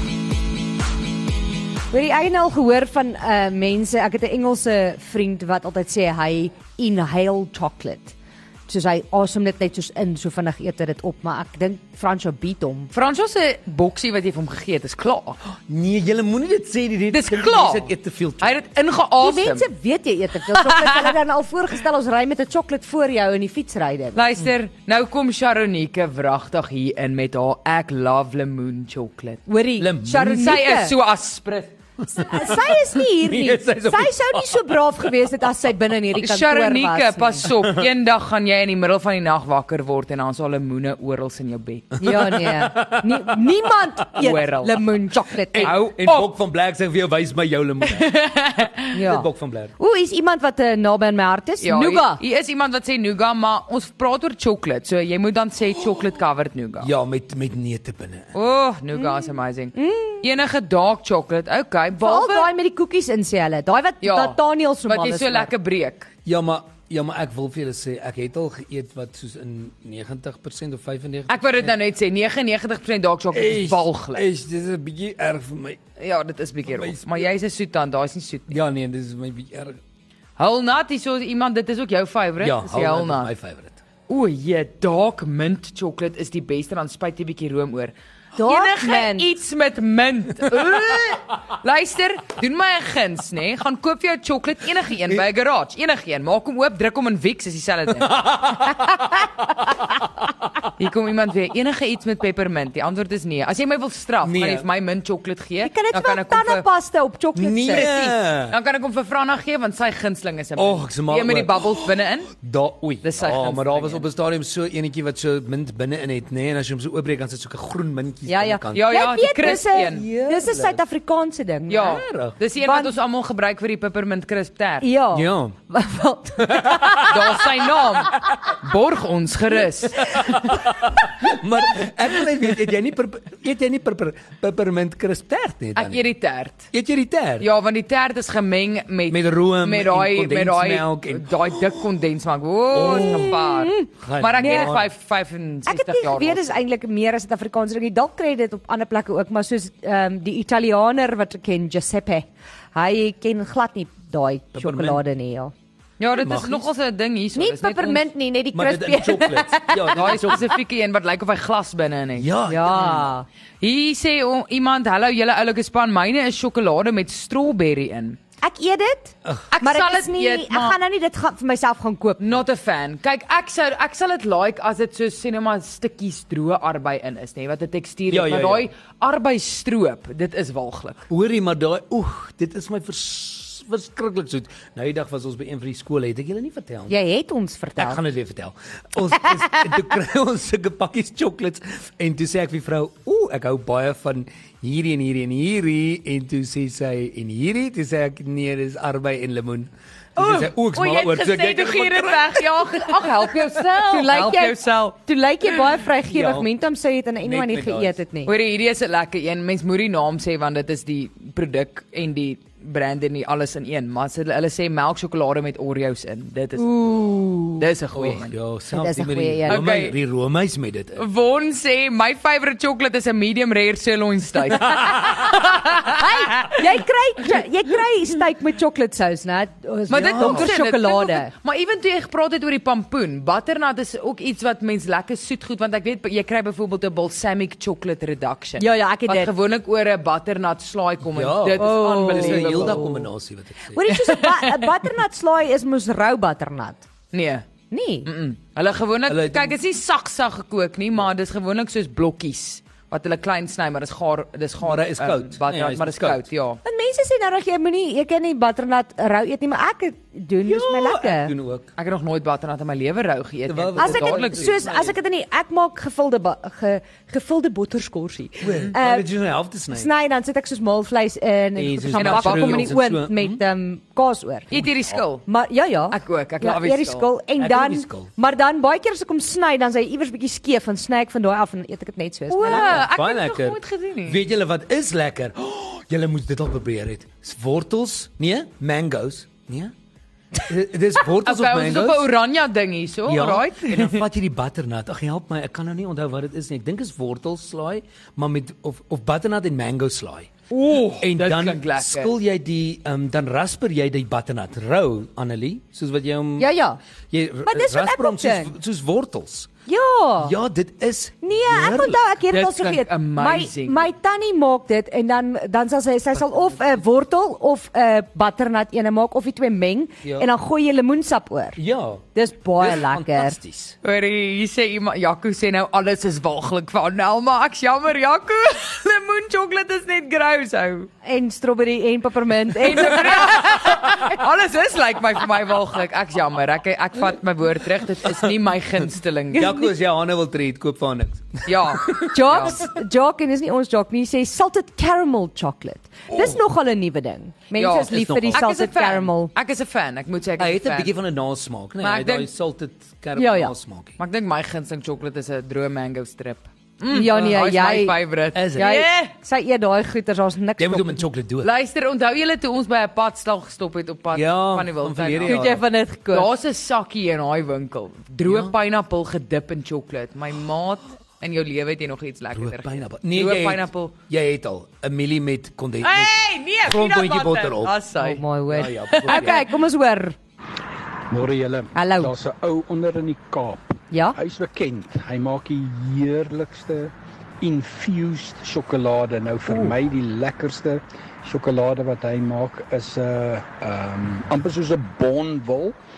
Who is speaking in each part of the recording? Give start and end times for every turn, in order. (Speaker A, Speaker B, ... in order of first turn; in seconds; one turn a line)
Speaker A: 1.9-8.1
Speaker A: 8.7-12.9
Speaker B: 12.9-15.4
Speaker C: 15.7-18.6
Speaker B: 17.1-19.7
Speaker A: 19.2-24.2
Speaker B: 24.1-29.4
Speaker A: 29.4-30.9
Speaker C: 29.8-30.7
Speaker B: 30.2-31.7
Speaker C: 32.0-35.4
Speaker A: 32.1-37.5
Speaker B: 36.2-42.0
Speaker C: 37.5-37.9
Speaker C: 42.0-43.6
Speaker A: 42.0-45.8
Speaker B: 44.1-44.9
Speaker C: 45.5-48.1
Speaker B: 45.6-46.3
Speaker B: 47.8-48.9
Speaker A: 48.9-52.2
Speaker C: 49.0-49.7
Speaker B: 51.6-56.9
Speaker C: 56.8-58.3
Speaker B: 58.3-62.5
Speaker A: 59.7-60.2
Speaker A: 62.0-65.5
Speaker B: 64.0-66.1
Speaker C: 66.2-71.7
Speaker B: 71.3-74.2
Speaker C: 73.3-75.8
Speaker B: 76.0-78.5
Speaker C: 76.7-77.3
Speaker C: 78.5-79.8
Speaker B: 80.4-83.3
Speaker C: 82.4-83.8
Speaker B: 84.1-98.2
Speaker A: 88.3-89.3
Speaker C: 98.0-99.2
Speaker C: 99.8-100.5
Speaker B: 100.8-106.7
Speaker C: 104.2-104.7
Speaker A: 105.6-107.9
Speaker C: 107.3-108.5
Speaker B: 107.7-112.3
Speaker C: 110.5-120.8
Speaker B: 113.0-114.0
Speaker A: 118.3-122.0
Speaker B: 118.7-120.1
Speaker B: 121.7-124.9
Speaker C: 121.7-122.4
Speaker A: 122.6-122.9
Speaker A: 124.8-127.6
Speaker C: 125.1-125.5
Speaker C: 126.4-127.2
Speaker B: 127.0-130.4
Speaker C: 130.0-136.1
Speaker B: 135.7-136.7
Speaker C: 136.7-137.5
Speaker B: 137.4-146.6
Speaker C: 139.1-141.8
Speaker C: 142.7-143.4
Speaker A: 142.7-144.7
Speaker C: 144.0-144.9
Speaker A: 145.7-155.5
Speaker C: 154.5-155.0
Speaker B: 156.0-158.1
Speaker C: 156.2-156.7
Speaker A: 157.3-160.4
Speaker C: 158.5-160.5
Speaker B: 159.9-163.1
Speaker C: 162.2-163.1
Speaker A: 162.5-163.2
Speaker B: 163.6-168.2
Speaker A: 168.4-172.4
Speaker B: 169.5-170.8
Speaker B: 172.2-181.1
Speaker C: 178.1-178.7
Speaker C: 181.1-186.9
Speaker A: 186.9-188.0
Speaker C: 187.8-202.9
Speaker B: 200.2-205.0
Speaker A: 203.0-208.3
Speaker C: 206.1-206.5
Speaker C: 207.2-208.0
Speaker B: 208.2-216.7
Speaker A: 216.6-217.7
Speaker B: 217.6-218.3
Speaker C: 217.9-221.0
Speaker A: 218.7-219.6
Speaker B: 219.5-219.9
Speaker B: 220.9-226.6
Speaker A: 225.8-231.3
Speaker B: 229.9-243.0
Speaker C: 230.0-230.5
Speaker A: 238.6-239.3
Speaker C: 241.1-243.8
Speaker A: 241.6-243.0
Speaker A: 243.7-246.9
Speaker B: 243.9-244.7
Speaker B: 247.1-247.4
Speaker A: 247.7-248.1
Speaker B: 248.0-256.6
Speaker C: 249.1-249.6
Speaker C: 254.6-256.2
Speaker A: 256.6-261.3
Speaker C: 260.4-261.7
Speaker B: 261.8-264.9
Speaker C: 263.5-264.9
Speaker A: 263.8-269.1
Speaker C: 268.4-269.9
Speaker B: 268.4-268.7
Speaker A: 269.7-274.6
Speaker C: 271.6-273.4
Speaker B: 271.9-272.8
Speaker B: 274.5-275.2
Speaker A: 275.2-282.8
Speaker B: 275.9-277.1
Speaker C: 277.4-278.1
Speaker B: 282.3-284.2
Speaker C: 282.4-289.7
Speaker C: 290.4-292.1
Speaker B: 291.2-294.0
Speaker C: 293.1-300.3
Speaker B: 300.5-302.1
Speaker C: 301.0-306.5
Speaker A: 306.4-306.8
Speaker C: 307.1-309.5
Speaker A: 307.4-308.5
Speaker A: 309.7-310.3
Speaker C: 310.2-312.0
Speaker A: 311.2-321.6
Speaker B: 312.3-313.9
Speaker C: 320.0-320.3
Speaker C: 321.6-323.8
Speaker A: 322.1-323.4
Speaker B: 323.8-330.9
Speaker A: 331.0-333.4
Speaker B: 332.6-339.7
Speaker C: 338.0-338.3
Speaker C: 339.3-342.6
Speaker B: 341.4-342.6
Speaker A: 342.1-349.3
Speaker C: 346.1-346.4
Speaker B: 347.5-350.9
Speaker C: 347.9-348.5
Speaker C: 350.4-353.9
Speaker B: 351.8-352.3
Speaker A: 353.1-353.5
Speaker B: 354.0-359.1
Speaker A: 356.9-358.0
Speaker C: 358.3-358.7
Speaker A: 358.5-361.0
Speaker C: 360.6-361.5
Speaker B: 361.4-365.5
Speaker C: 364.1-365.6
Speaker A: 365.2-366.3
Speaker B: 366.1-373.9
Speaker C: 368.2-368.5
Speaker C: 372.3-377.8
Speaker B: 375.8-379.5
Speaker A: 378.0-380.1
Speaker C: 378.5-379.5
Speaker D: 381.1-395.8
Speaker A: 381.7-382.1
Speaker A: 383.9-384.2
Speaker A: 389.5-389.8